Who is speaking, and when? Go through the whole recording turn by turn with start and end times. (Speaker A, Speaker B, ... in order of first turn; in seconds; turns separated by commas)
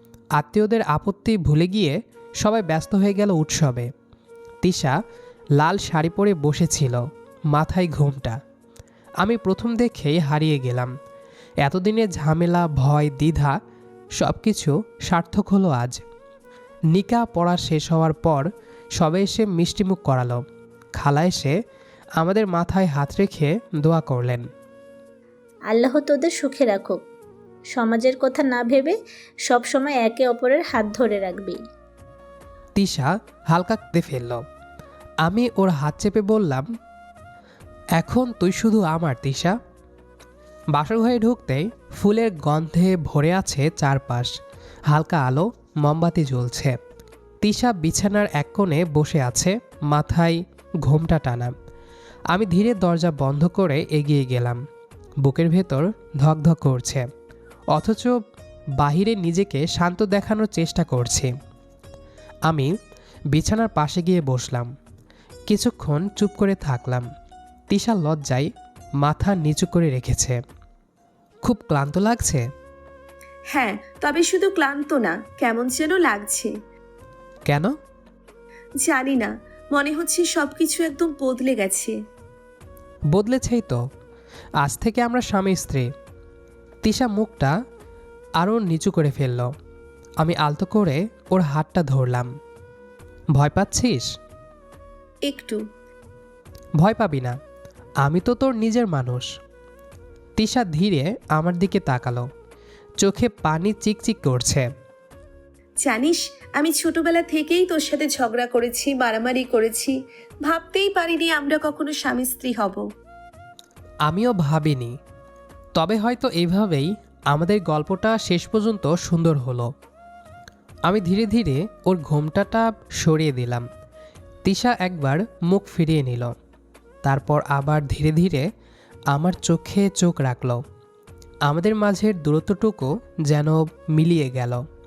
Speaker A: 0.3-3.9, Speaker A: 4.6-5.0, Speaker A: 5.6-8.4, Speaker A: 9.2-10.9, Speaker A: 11.6-13.6, Speaker A: 14.2-16.0, Speaker A: 16.9-20.4, Speaker A: 21.0-21.6, Speaker A: 22.2-24.4, Speaker B: 25.7-27.0, Speaker B: 27.7-31.6, Speaker A: 32.8-34.4, Speaker A: 35.2-36.7, Speaker A: 38.0-39.6, Speaker A: 40.8-44.3, Speaker A: 44.9-46.8, Speaker A: 47.4-51.5, Speaker A: 52.3-54.6, Speaker A: 55.2-57.1, Speaker A: 57.7-58.2, Speaker A: 58.8-61.3, Speaker A: 62.5-62.7, Speaker A: 63.3-64.7, Speaker A: 65.5-67.1, Speaker A: 67.7-68.5, Speaker A: 69.0-70.4, Speaker A: 71.4-72.5, Speaker C: 73.5-76.5, Speaker A: 77.5-77.8, Speaker C: 78.8-82.0, Speaker A: 83.1-83.8, Speaker A: 84.6-85.9, Speaker A: 86.8-87.5, Speaker A: 88.4-89.5, Speaker A: 90.2-92.3, Speaker A: 93.3-94.1, Speaker C: 95.3-95.6, Speaker A: 96.8-97.4, Speaker A: 98.0-99.3, Speaker A: 100.4-102.3, Speaker A: 103.0-104.7, Speaker C: 105.8-112.9, Speaker A: 114.1-115.0, Speaker A: 115.8-119.7, Speaker A: 120.9-123.7, Speaker A: 124.5-126.3, Speaker A: 127.0-128.5, Speaker A: 129.1-130.6, Speaker A: 131.5-134.6